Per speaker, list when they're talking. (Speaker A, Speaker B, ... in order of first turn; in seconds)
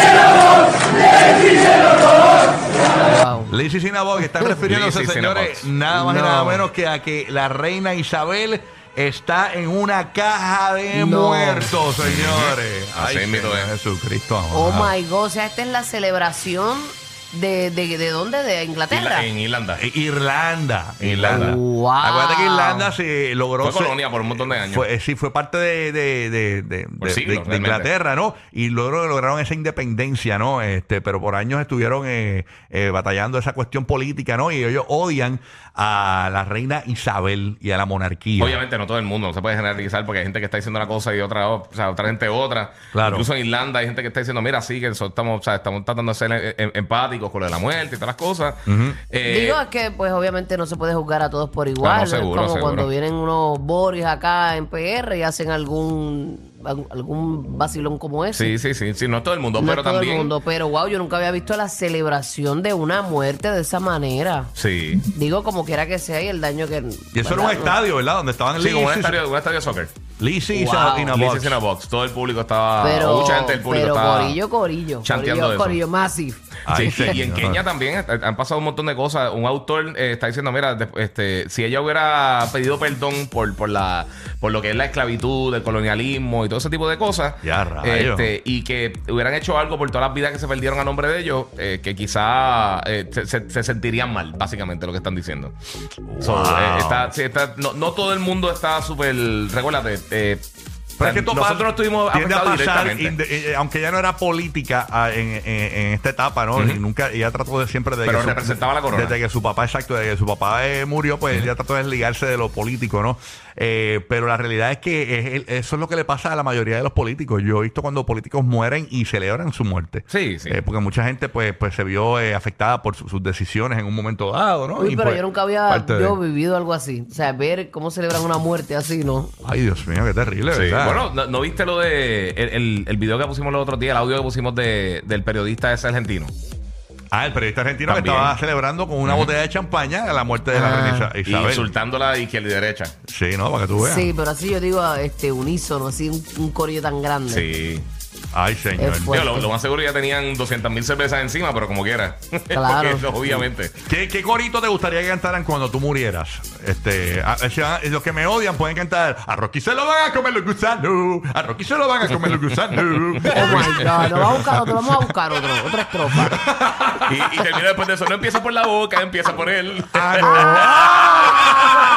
Speaker A: 3.0-3.5, 5.9-6.6, 10.9-11.7, 14.5-19.3, 21.3-22.9, 49.2-58.5, 59.6-64.5, 65.0-67.8, 70.5-71.2, 72.8-77.2, 124.8-129.3, 140.5-141.1, 143.8-147.4, 148.8-149.5, 152.5-153.1, 163.3-166.4, 170.2-171.4
Speaker B: 3.5-14.9, 19.8-38.6, 42.9-43.3, 48.7-49.0, 67.1-69.2, 70.2-71.6, 76.7-77.6, 87.4-88.3, 96.1-97.2, 101.0-126.2, 129.4-131.1, 137.1-141.7, 143.1-144.1, 148.3-149.2, 153.9-165.0, 166.2-167.1, 169.9-171.6
Speaker C: 4.5-5.7, 12.0-13.7, 18.9-19.8, 21.0-21.6, 23.6-24.9, 27.0-27.9, 38.4-49.6, 51.8-52.9, 58.3-60.3, 64.6-65.0, 68.6-69.9, 71.1-74.4, 75.0-75.8, 76.7-95.5, 96.2-100.4, 101.0-103.2, 108.0-109.2, 120.1-120.6, 130.5-136.3, 137.9-138.4, 139.0-139.3, 141.2-142.9, 147.3-147.9, 149.1-153.8, 163.1-163.8, 167.0-171.0